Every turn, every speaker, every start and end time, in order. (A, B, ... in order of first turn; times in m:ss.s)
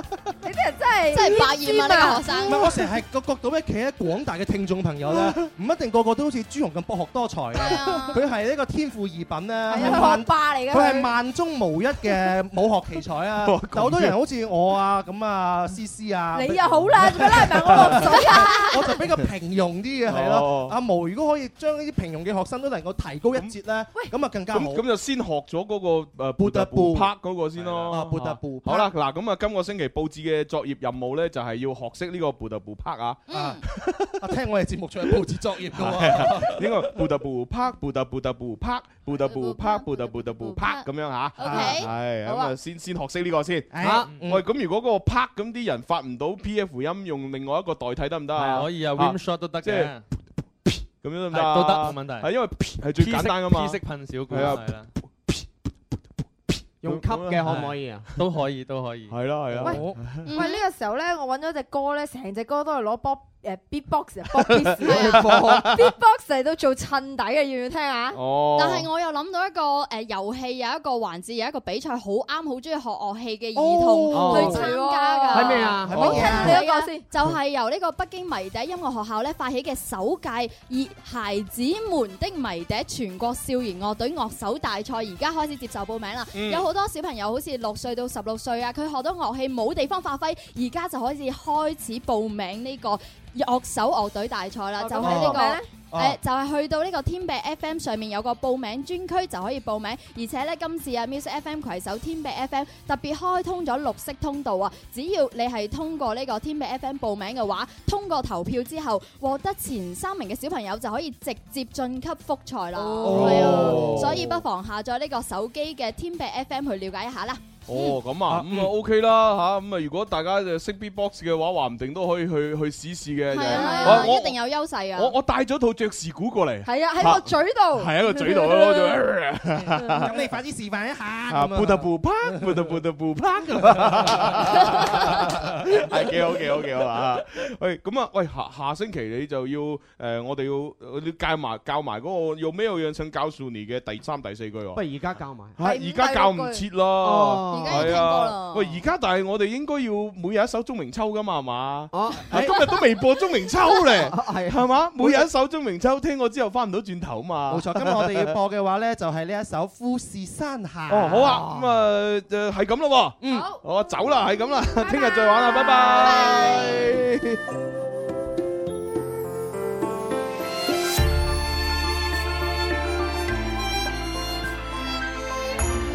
0:00.4-0:02.7 A
0:01.1-0:02.8 B
0:02.4-0:24.8 C
0:07.5-0:08.2 B
0:07.8-0:08.2 A
0:09.7-0:11.1 A
0:13.4-0:14.2 D
0:16.3-0:19.0 A
0:18.1-0:18.9 B
0:20.1-0:20.8 D
0:24.5-0:34.2 D
0:26.4-0:27.1 C
0:27.6-0:27.9 E
0:27.9-0:28.9 C
0:33.3-0:33.6 B
0:33.3-0:33.6 C
0:34.1-0:37.1 C
0:35.7-0:49.9 D
0:39.1-0:42.6 B
0:41.4-0:41.8 C
0:43.7-0:44.4 C
0:43.8-0:44.2 F
0:48.4-0:48.7 F
0:48.5-0:50.0 E
0:51.0-0:55.4 D
0:51.3-0:52.3 E
0:52.9-0:54.9 E
0:56.8-0:58.1 F
0:56.8-0:58.2 D
0:57.4-0:59.2 E
0:59.1-1:00.3 D
0:59.6-0:59.8 F
0:59.6-1:00.0 C
0:59.6-1:08.2 A
1:00.2-1:00.6 B
1:04.4-1:04.8 D
1:04.8-1:05.7 F
1:04.9-1:05.3 B
1:05.3-1:05.9 D
1:08.1-1:08.9 D
1:08.6-1:58.0 B
1:13.6-1:14.7 C
1:14.1-1:14.6 F
1:14.3-1:17.1 A
1:15.3-1:16.1 F
1:15.9-1:16.6 C
1:26.3-1:26.7 D
1:34.8-1:35.7 A
1:35.0-1:36.2 C
1:52.8-1:53.8 A
1:53.0-1:54.2 C
1:53.0-1:54.3 D
1:57.7-2:04.4 D
1:58.3-1:58.7 C
2:03.3-2:05.2 B
2:03.5-2:04.2 A
2:04.9-2:10.2 D
2:06.6-2:09.0 A
2:10.0-2:12.6 C
2:11.3-2:24.8 D
2:13.6-2:15.2 C
2:24.8-2:25.6 F
2:25.6-2:38.3 D
2:25.6-2:26.7 A
2:27.0-2:28.0 F
2:27.5-2:28.8 B
2:31.9-2:32.3 F
2:32.3-2:32.6 C
2:33.9-2:35.1 F
2:37.5-2:41.3 C
2:40.9-2:47.4 D
2:41.0-2:41.8 F
2:43.2-2:43.5 C
2:43.3-2:43.6 A
2:44.7-2:46.1 A
2:45.6-2:46.9 B